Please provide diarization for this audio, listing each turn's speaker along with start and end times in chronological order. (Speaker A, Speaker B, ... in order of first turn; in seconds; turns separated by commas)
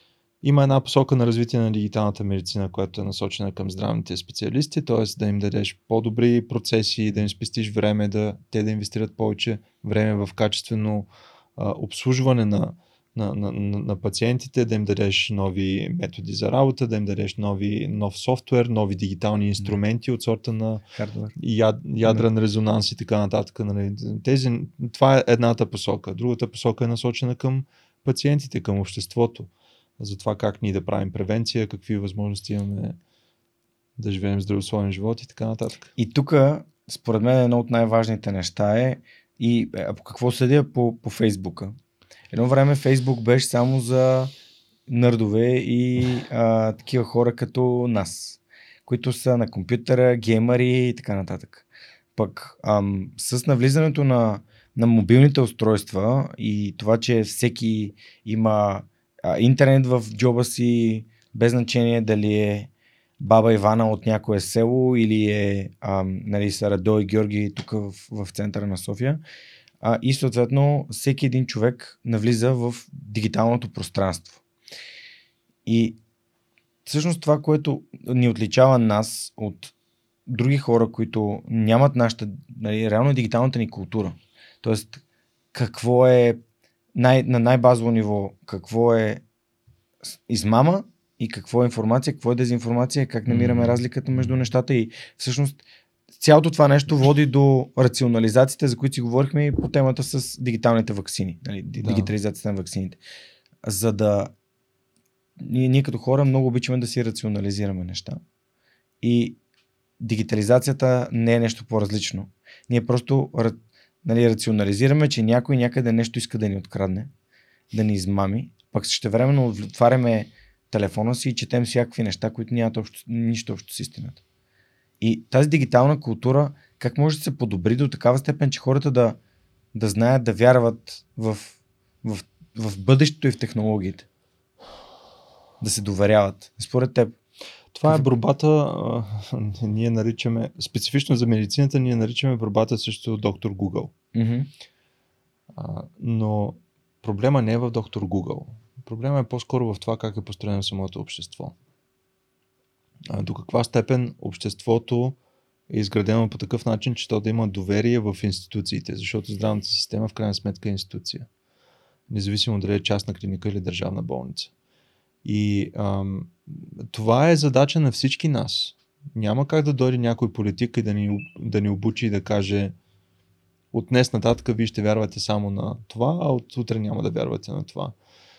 Speaker A: 0.4-20.8, Speaker B: 20.9-21.4, Speaker A: 21.4-33.0, Speaker A: 34.0-35.9, Speaker B: 36.0-41.8, Speaker B: 42.3-44.3, Speaker B: 44.9-69.2, Speaker B: 69.8-74.4, Speaker B: 75.7-76.0, Speaker B: 76.8-79.7, Speaker B: 80.3-85.0, Speaker B: 85.5-86.4, Speaker B: 87.0-89.2, Speaker B: 90.0-95.6, Speaker A: 93.3-93.8, Speaker B: 96.2-103.0, Speaker A: 101.8-102.1, Speaker B: 103.6-104.3, Speaker B: 105.4-108.2, Speaker B: 109.0-109.4, Speaker B: 110.0-117.1, Speaker B: 117.7-124.2, Speaker B: 125.0-129.2, Speaker B: 129.7-134.1, Speaker B: 135.6-137.2, Speaker A: 137.7-143.9, Speaker B: 144.1-144.5, Speaker A: 145.5-151.6, Speaker A: 153.1-155.2, Speaker A: 155.7-161.3, Speaker A: 162.1-164.5, Speaker A: 165.2-172.7, Speaker A: 173.7-177.9